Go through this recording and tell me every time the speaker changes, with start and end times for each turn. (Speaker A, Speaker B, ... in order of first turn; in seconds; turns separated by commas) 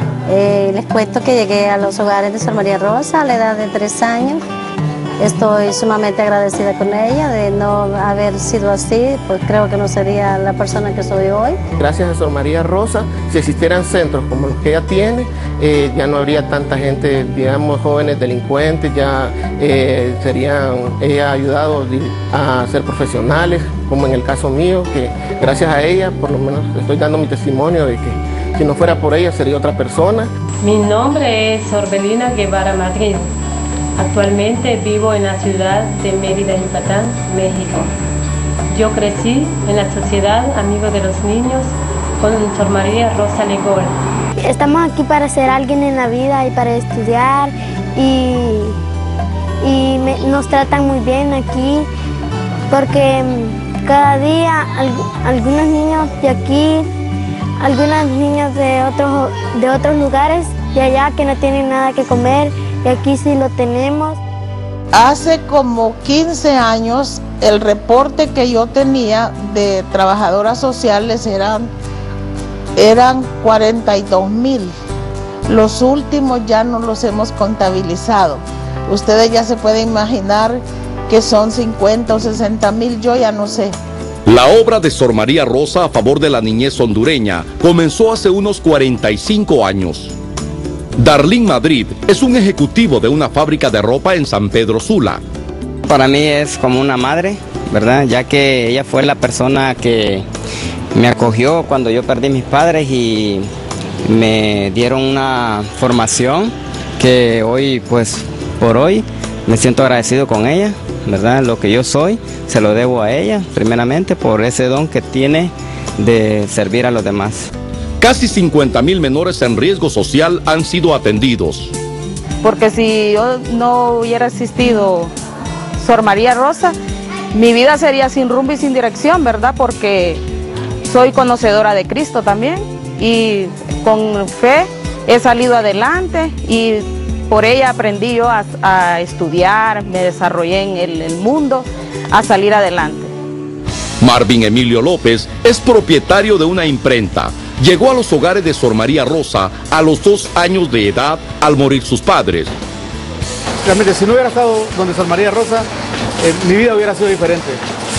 Speaker A: 0.3-4.4, Speaker A: 5.2-11.6, Speaker B: 11.8-30.3, Speaker C: 30.6-33.3, Speaker C: 34.0-37.9, Speaker C: 38.7-44.0, Speaker D: 44.4-48.8, Speaker D: 49.6-51.9, Speaker D: 52.7-56.9, Speaker D: 57.6-64.2, Speaker E: 64.9-71.7, Speaker E: 72.8-74.7, Speaker E: 75.5-83.8, Speaker F: 84.3-90.1, Speaker F: 91.0-95.2, Speaker G: 95.9-100.3, Speaker G: 100.9-103.5, Speaker G: 104.1-117.5, Speaker F: 118.0-121.8, Speaker H: 122.5-125.1, Speaker H: 125.9-126.7, Speaker H: 127.3-130.2, Speaker H: 130.9-143.1, Speaker F: 144.0-152.5, Speaker I: 153.7-155.6, Speaker I: 156.4-157.5